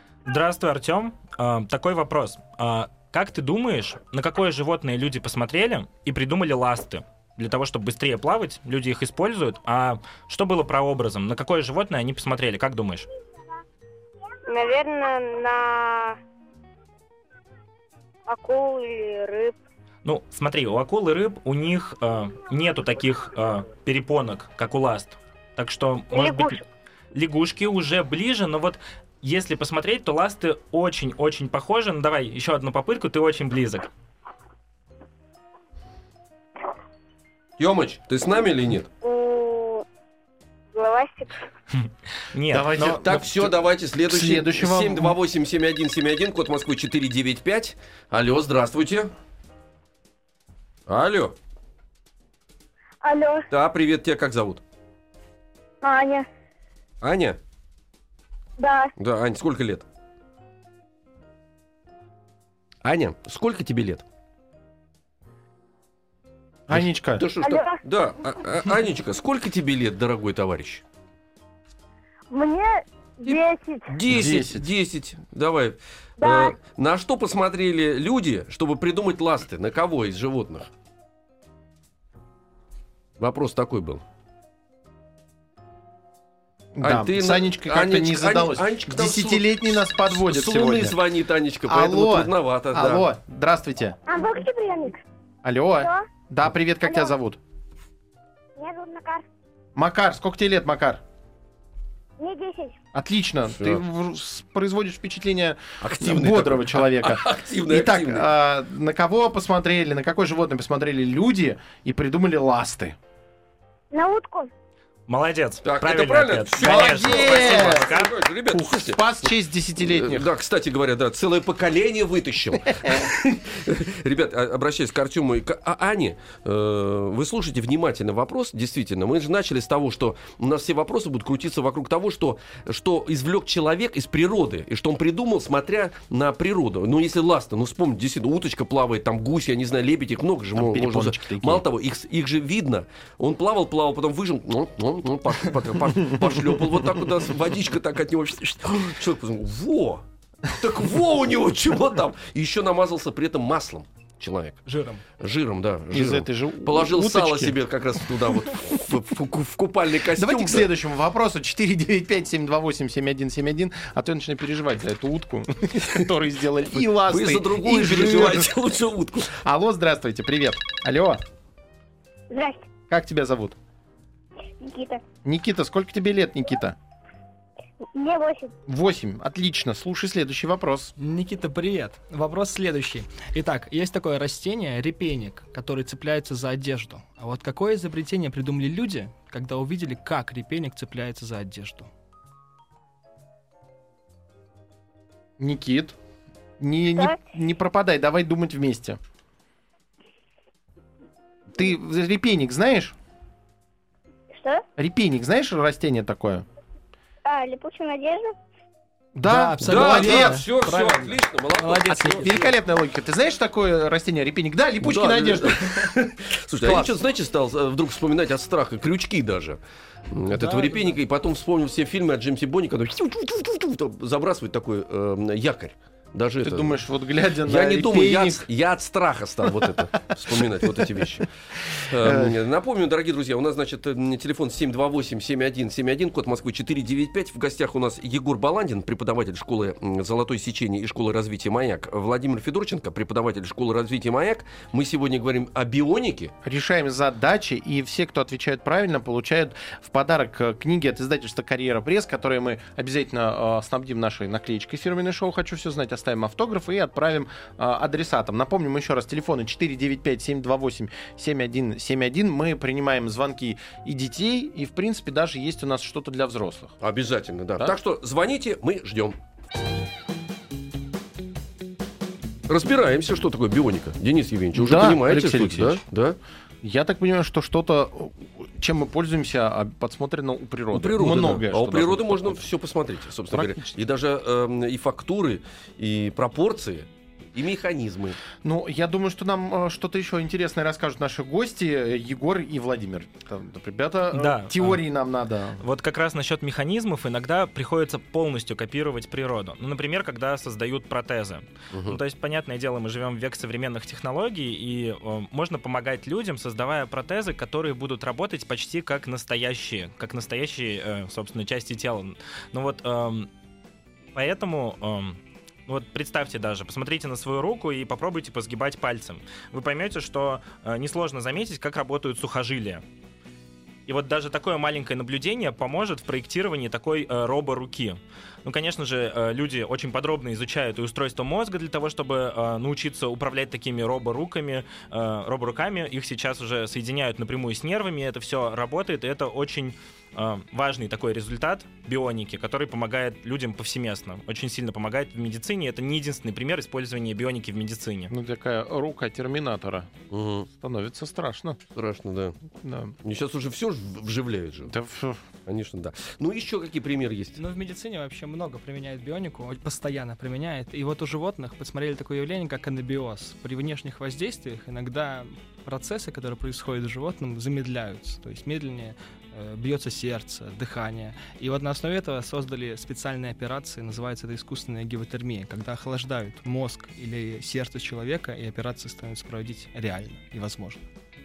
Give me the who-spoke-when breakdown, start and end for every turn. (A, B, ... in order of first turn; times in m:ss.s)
0:00.2-0:13.0 A
0:14.5-0:16.2 B
0:18.3-0:19.5 B
0:20.0-0:26.6 A
0:26.1-0:26.6 B
0:27.1-0:33.9 A
0:37.6-0:38.9 C
0:39.0-0:39.8 B
0:40.7-0:41.5 B
0:42.3-0:43.0 A
0:42.5-0:43.5 D
0:42.8-0:49.1 C
0:44.1-0:45.2 D
0:50.9-0:51.3 C
0:53.0-0:53.4 B
0:53.5-0:54.6 C
0:55.8-0:56.3 B
0:57.0-0:57.4 C
0:58.6-0:58.9 B
0:59.0-0:59.8 C
1:02.8-1:04.0 C
1:06.7-1:07.2 D
1:06.7-1:10.8 C
1:07.4-1:07.8 B
1:12.3-1:13.9 B
1:13.2-1:20.7 C
1:14.1-1:14.6 D
1:16.2-1:16.5 B
1:23.2-1:24.0 C
1:26.8-1:31.0 D
1:26.8-1:33.1 C
1:31.7-1:34.0 D
1:34.0-1:35.0 B
1:35.4-1:37.4 D
1:35.8-1:36.0 B
1:36.8-1:37.1 B
1:38.6-1:39.2 B
1:39.7-1:41.0 D
1:42.2-1:42.8 B
1:42.9-1:53.0 D
1:43.5-1:43.8 C
1:45.8-1:48.3 C
1:53.9-1:54.5 B
1:55.1-1:58.1 A
1:55.6-2:34.6 C
1:56.6-2:00.3 D
2:02.7-2:03.1 D
2:20.6-2:21.6 D
2:34.6-2:35.0 E
2:35.2-2:40.7 C
2:35.9-2:38.9 D
2:40.1-2:48.6 D
2:45.8-2:46.1 C
2:46.7-2:49.4 C
2:49.4-2:51.2 D
2:52.3-2:52.7 B
2:52.9-2:53.6 D
2:54.6-2:55.0 B
2:55.2-2:56.8 D
2:57.8-2:58.5 B
2:58.7-3:00.9 D
3:01.0-3:11.9 E
3:15.4-3:15.9 D
3:16.6-3:19.0 D
3:21.5-3:22.9 D
3:24.3-3:24.6 B
3:24.8-3:26.4 D
3:27.2-3:28.4 B
3:29.1-3:30.4 D
3:29.2-3:32.5 E
3:29.6-3:32.5 C
3:32.2-3:35.9 D
3:34.8-3:46.8 C
3:36.6-3:37.0 D
3:40.3-3:41.0 E
3:46.4-3:48.4 D
3:47.4-4:06.3 C
3:49.4-3:52.3 D
4:06.4-4:26.7 D
4:26.8-4:29.2 C
4:32.5-4:36.2 C
4:34.5-4:35.8 D
4:36.6-4:42.4 D
4:40.7-4:48.2 C
4:43.3-4:43.8 D
4:48.4-4:55.6 D
4:54.1-4:54.8 A
4:55.6-5:13.3 A
5:01.7-5:02.0 C
5:14.1-5:22.8 A
5:23.9-5:48.1 A
5:48.1-5:49.9 D
5:50.1-5:50.5 C
5:50.5-5:51.6 D
5:51.7-5:52.4 C
5:52.5-5:53.0 D
5:53.0-5:54.7 C
5:54.7-5:55.2 D
5:55.4-5:57.4 C
5:57.4-6:20.8 E